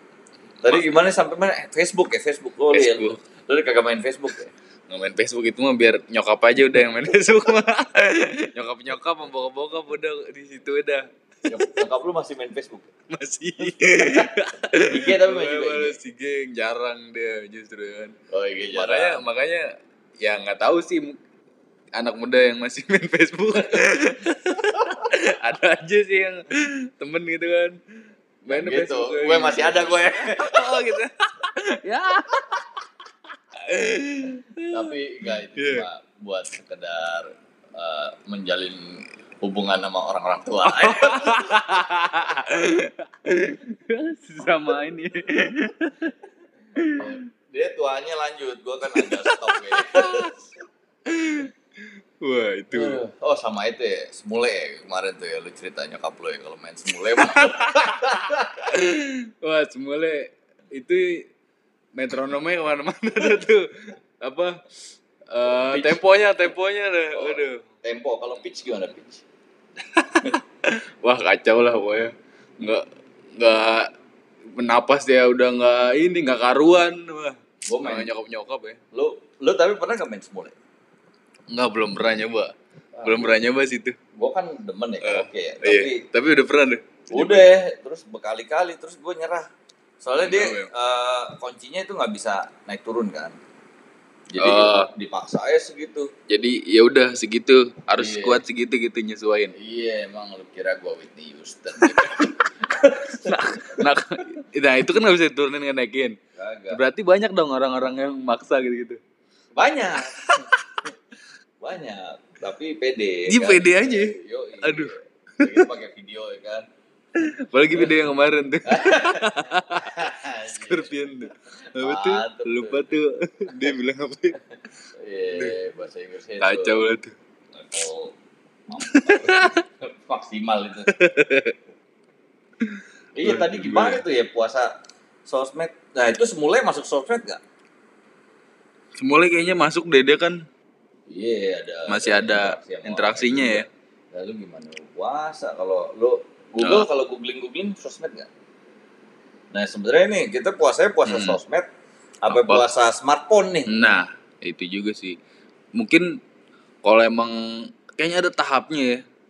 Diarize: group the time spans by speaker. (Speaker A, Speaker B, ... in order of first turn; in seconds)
Speaker A: 0.6-4.5, 11.5-12.9, 13.8-16.0, 18.3-19.2, 28.5-30.9, 34.6-41.5, 46.9-50.4, 52.7-58.7, 65.5-66.0, 67.2-69.2, 77.7-78.1, 78.9-80.6, 83.0-83.4, 84.2-86.0, 87.1-89.5, 90.0-93.4, 94.3-96.1, 98.0-98.4, 99.5-103.9, 106.4-106.8, 109.6-110.5, 111.6-116.7, 118.7-121.0, 121.8-122.9, 124.9-126.9, 127.5-128.2, 128.7-130.9, 133.2-134.7, 135.3-137.4, 141.1-148.3, 149.5-151.7, 152.2-153.7
Speaker B: 2.7-3.2, 4.9-11.8, 13.1-18.1, 18.7-21.2, 22.0-27.8, 28.4-32.9, 33.5-34.9, 35.5-35.9, 40.6-46.2, 46.8-47.2, 48.8-50.3, 51.1-53.0, 57.0-61.3, 62.0-64.7, 65.3-67.6, 69.9-73.9, 74.5-78.8, 81.5-84.0, 85.0-87.5, 90.2-90.7, 94.4-94.9, 96.3-99.5, 101.8-102.3, 103.0-106.2, 106.7-109.0, 110.1-110.9, 113.3-115.7, 117.2-124.4, 125.3-125.6, 126.4-127.1, 128.8-129.6, 130.9-131.6, 132.6-134.0, 139.0-140.5, 141.9-143.7, 146.6-146.9, 151.1-151.4, 152.3-152.7, 153.7-155.2, 155.8-156.2, 156.8-159.1